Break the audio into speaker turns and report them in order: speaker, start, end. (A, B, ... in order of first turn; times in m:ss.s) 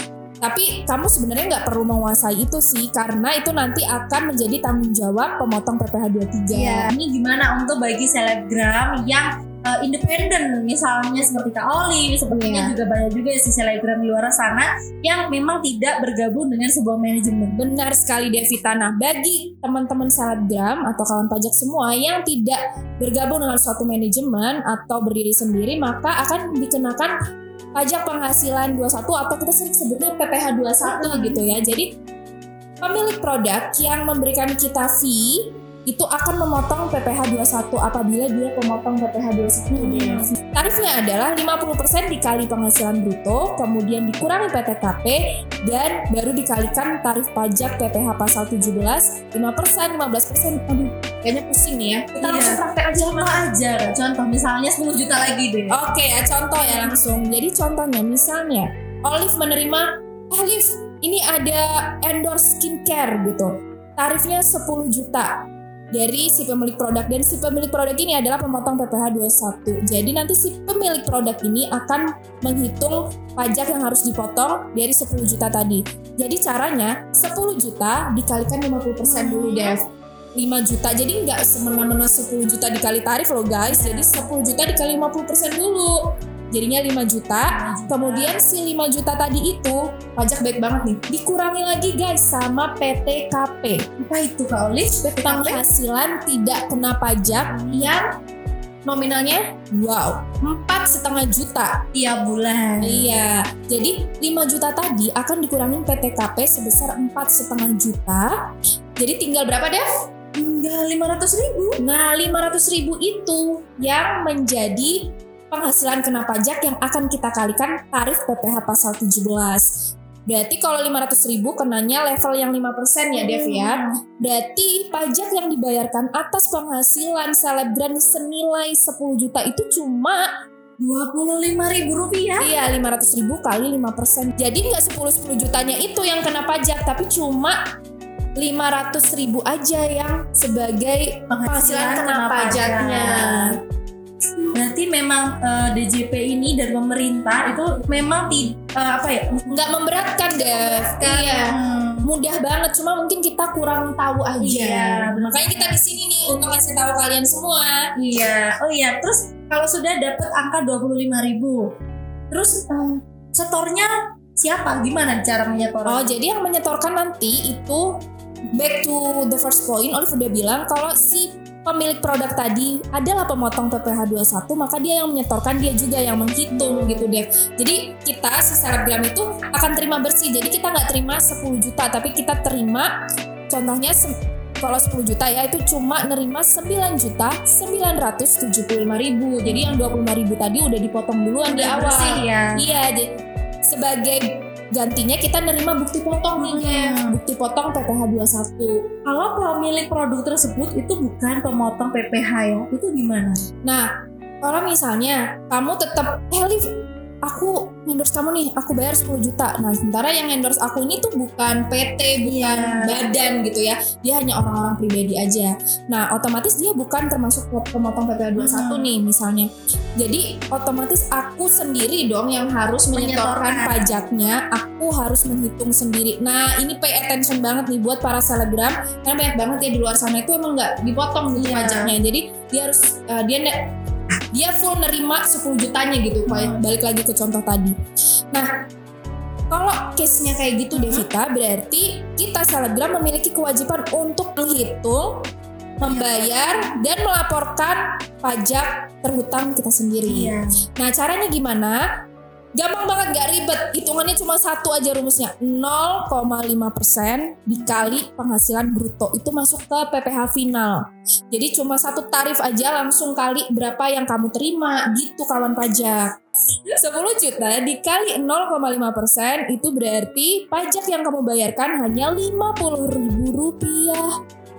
0:00.4-0:06.9 A
0:06.5-0:17.6 B
0:12.3-0:12.7 A
0:17.6-0:27.1 A
0:27.8-0:31.9 A
0:30.8-0:31.4 B
0:32.8-0:53.4 A
0:39.7-0:40.3 B
0:52.2-0:55.8 B
0:55.7-1:05.3 A
0:56.6-0:57.0 B
1:05.9-1:19.8 A
1:19.0-1:19.7 B
1:20.4-1:26.0 A
1:23.7-1:24.3 B
1:26.5-1:33.8 A
1:27.5-1:28.3 B
1:34.0-1:35.6 B
1:35.0-1:38.0 A
1:37.5-1:37.9 B
1:38.9-1:41.7 A
1:41.9-1:43.1 B
1:42.8-1:48.3 A
1:49.0-1:49.9 A
1:50.4-1:51.8 B
1:51.8-1:55.0 A
1:55.5-1:59.7 A
2:00.3-2:10.3 A
2:03.1-2:03.9 B
2:10.8-2:12.5 B
2:12.4-2:17.6 A
2:18.4-2:23.5 A
2:21.3-2:23.5 B
2:24.5-2:29.6 B
2:29.5-2:31.5 A
2:30.3-2:32.0 B
2:32.0-2:37.8 A
2:34.4-2:35.8 B
2:38.0-2:41.6 B
2:42.3-2:46.2 B
2:45.9-2:47.8 A
2:48.6-3:02.9 A
2:56.5-2:57.1 B
3:03.5-3:04.1 A
3:04.6-3:13.0 A
3:09.4-3:09.8 B
3:11.5-3:12.6 B
3:13.7-3:18.8 A
3:16.4-3:17.2 B
3:19.0-3:23.4 B
3:24.4-3:26.6 A
3:27.2-3:39.5 A
3:32.2-3:33.0 B
3:38.4-3:38.9 B
3:40.0-3:53.5 A
3:42.9-3:43.8 B
3:51.3-3:51.9 B
3:54.3-3:57.7 A
3:56.3-3:56.6 B
3:59.5-4:05.1 A
4:00.7-4:01.1 B
4:05.8-4:06.7 B
4:05.8-4:11.8 A
4:10.0-4:10.5 B
4:12.6-4:26.1 A
4:17.5-4:18.0 B
4:26.8-4:34.1 A